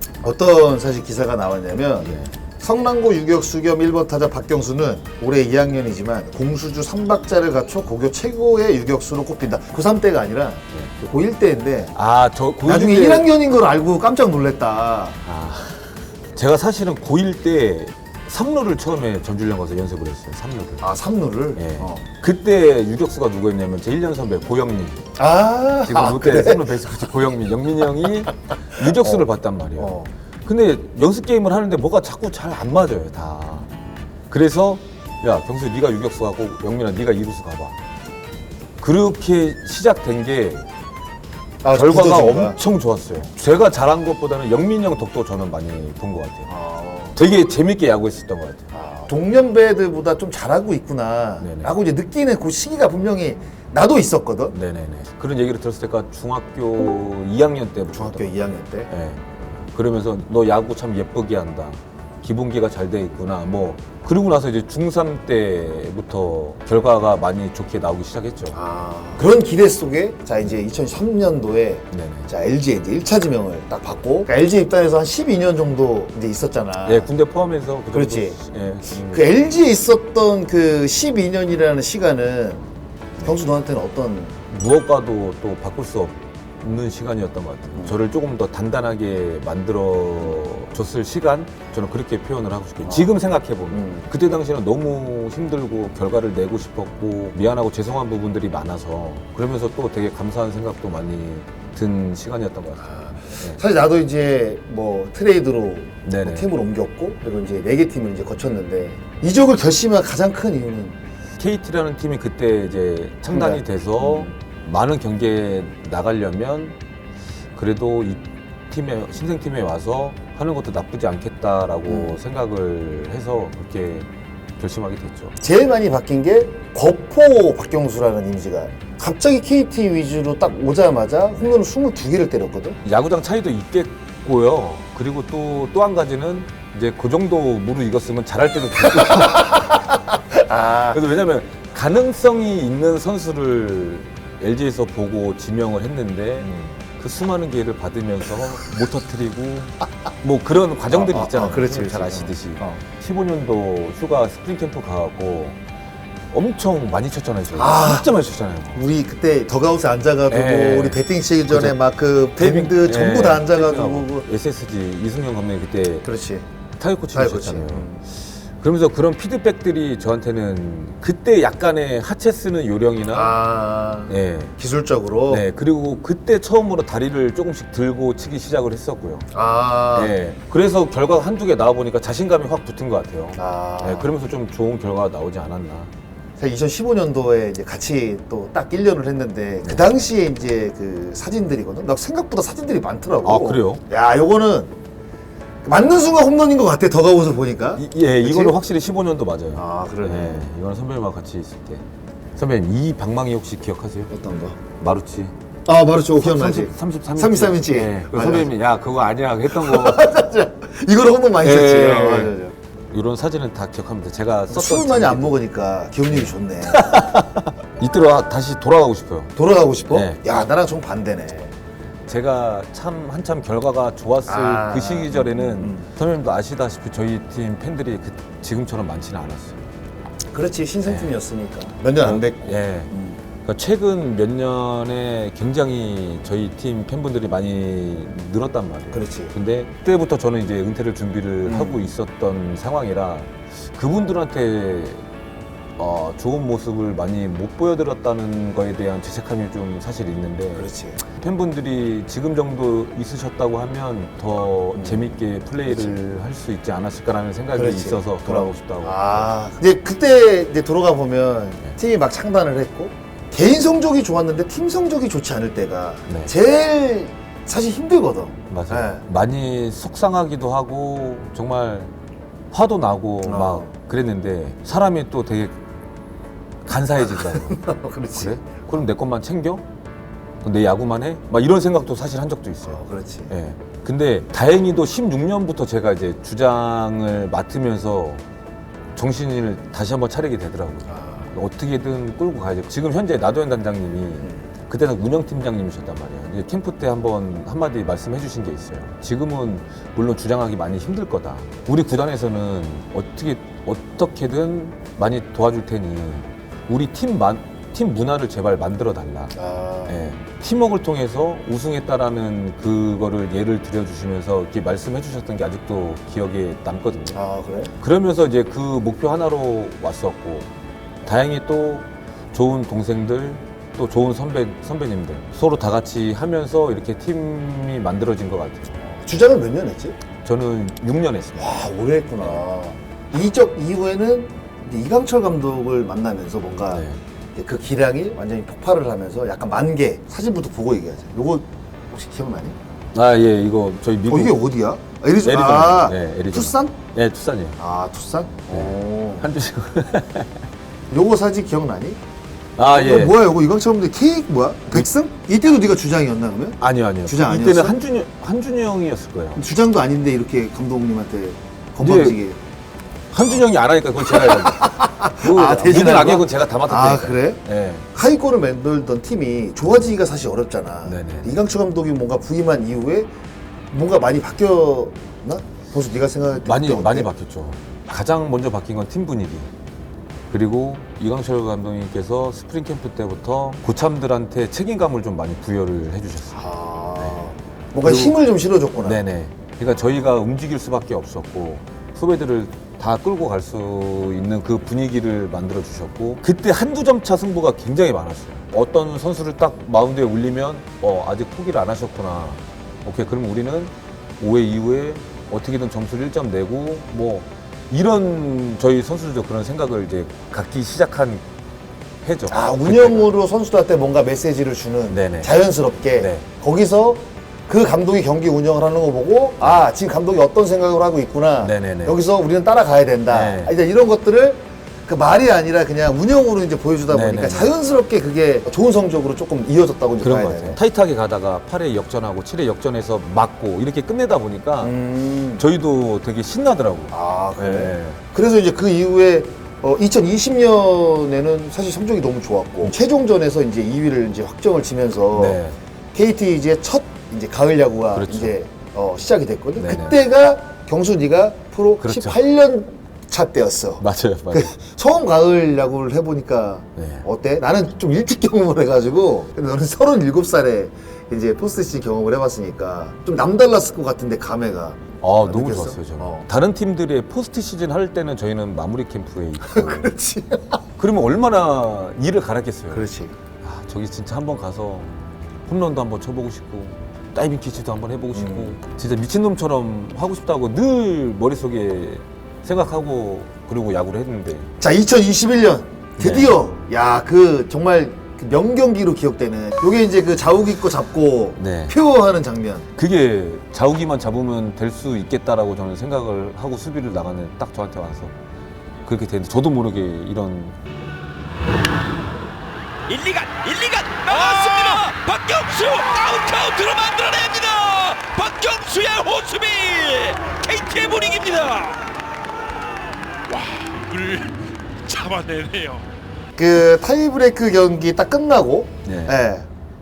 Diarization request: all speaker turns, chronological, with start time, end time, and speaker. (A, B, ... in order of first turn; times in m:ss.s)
0:00.2-0:11.9 A
0:02.0-0:02.3 B
0:11.9-0:13.3 B
0:12.6-0:15.2 A
0:15.2-0:20.9 B
0:20.8-0:22.0 A
0:21.6-0:25.0 B
0:25.2-0:27.0 A
0:25.8-0:33.7 B
0:28.8-0:30.1 A
0:34.3-0:37.8 B
0:38.8-0:40.6 B
0:41.6-0:42.6 A
0:41.7-0:46.5 B
0:46.5-0:47.2 A
0:47.1-0:48.7 B
0:48.7-0:54.5 A
0:51.4-0:51.7 B
0:54.5-0:58.4 B
0:57.9-0:58.9 A
0:58.9-1:08.6 B
1:08.5-1:17.1 A
1:11.9-1:12.3 B
1:16.8-1:19.2 B
1:17.9-1:18.4 A
1:19.0-1:22.6 A
1:23.2-1:24.4 A
1:24.5-1:43.6 B
1:27.7-1:28.0 A
1:32.8-1:33.1 A
1:33.7-1:34.1 A
1:42.8-1:51.0 A
1:46.0-1:46.5 B
1:51.4-1:56.8 B
1:53.3-1:54.3 A
1:57.5-2:04.1 B
2:01.9-2:02.2 A
2:04.6-2:05.3 B
2:05.4-2:12.8 A
2:12.8-2:19.8 B
2:18.9-2:21.0 A
2:20.9-2:35.6 B
2:26.4-2:26.8 A
2:30.9-2:32.8 A
2:36.3-2:38.8 B
2:37.5-2:38.1 A
2:38.7-2:44.3 A
2:40.3-2:41.8 B
2:42.4-2:46.1 B
2:46.0-2:46.4 A
2:46.8-2:53.4 B
2:47.1-2:48.0 A
2:53.1-2:55.4 A
2:54.1-2:54.5 B
2:55.3-2:59.3 B
2:59.3-3:00.1 A
2:59.9-3:05.9 B
3:03.4-3:04.1 A
3:06.4-3:14.7 A
3:13.2-3:13.8 B
3:15.6-3:18.5 A
3:17.8-3:21.8 B
3:19.5-3:20.5 A
3:22.4-3:24.1 B
3:24.1-3:24.6 A
3:24.8-3:25.3 B
3:25.6-3:28.5 A
3:26.2-3:30.1 B
3:29.5-3:32.5 A
3:31.4-3:32.4 B
3:32.9-3:35.4 B
3:34.5-3:36.9 A
3:36.1-3:39.4 B
3:39.4-3:41.5 A
3:39.9-3:40.2 B
3:42.1-3:49.6 B
3:44.3-3:45.9 A
3:50.3-3:53.2 A
3:50.8-3:51.1 B
3:52.0-3:52.9 B
3:53.4-4:05.0 B
3:58.9-3:59.3 A
4:01.4-4:01.8 A
4:05.8-4:19.3 B
4:10.6-4:11.0 A
4:14.7-4:15.1 A
4:15.6-4:15.9 A
4:17.5-4:29.0 A
4:26.1-4:26.3 B
4:28.5-4:31.9 B
4:32.5-4:35.6 B
4:33.2-4:33.7 A
4:36.6-4:37.6 B
4:37.2-4:38.4 A
4:38.2-4:39.6 B
4:40.4-4:48.2 B
4:42.6-4:43.3 A
4:48.9-5:09.3 B
4:50.9-4:51.3 A
5:09.3-5:10.0 A
5:09.9-5:17.2 B
5:17.1-5:17.7 A
5:17.8-5:20.5 B
5:21.0-5:28.8 B
5:28.8-5:30.0 A
5:30.2-5:31.6 B
5:31.4-5:42.6 A
5:36.7-5:37.0 B
5:42.9-5:44.4 B
5:44.1-5:46.8 A
5:45.2-5:47.6 B
5:47.6-5:49.3 A
5:48.5-5:50.4 B
5:50.9-5:52.0 A
5:52.6-5:53.2 B
5:52.6-5:57.8 A
5:56.6-5:59.4 B
5:59.3-6:02.4 A
6:01.8-6:02.2 B
6:03.1-6:07.8 B
6:04.0-6:13.1 A
6:10.8-6:11.4 B
6:13.7-6:17.1 A
6:16.4-6:19.5 B
6:20.3-6:26.4 B
6:26.3-6:29.0 A
6:27.0-6:27.2 B
6:27.8-6:28.2 B
6:28.8-6:51.2 B
6:52.0-6:53.1 B
6:52.3-7:10.6 A
6:54.9-6:55.3 B
6:56.0-6:56.2 B
6:59.4-6:59.7 B
7:01.4-7:02.0 B
7:03.1-7:03.5 B
7:06.9-7:07.5 B
7:10.0-7:14.8 B
7:14.6-7:15.4 A
7:15.4-7:18.0 B
7:16.9-7:25.4 A
7:25.1-7:25.6 B
7:25.9-7:46.3 A
7:27.9-7:28.4 B
7:29.6-7:30.0 B
7:31.8-7:32.2 B
7:33.8-7:34.5 B
7:36.8-7:37.0 B
7:45.0-7:49.9 B
7:49.4-7:50.6 A
7:50.8-7:52.9 B
7:52.7-7:53.2 A
7:53.4-8:04.5 B
7:58.1-7:58.6 A
8:04.6-8:12.7 A
8:06.0-8:06.4 B
8:11.4-8:11.8 B
8:12.8-8:18.1 B
8:18.8-8:20.6 B
8:22.9-8:31.9 C
8:33.3-8:35.8 C
8:36.4-8:39.5 A
8:38.8-8:39.2 B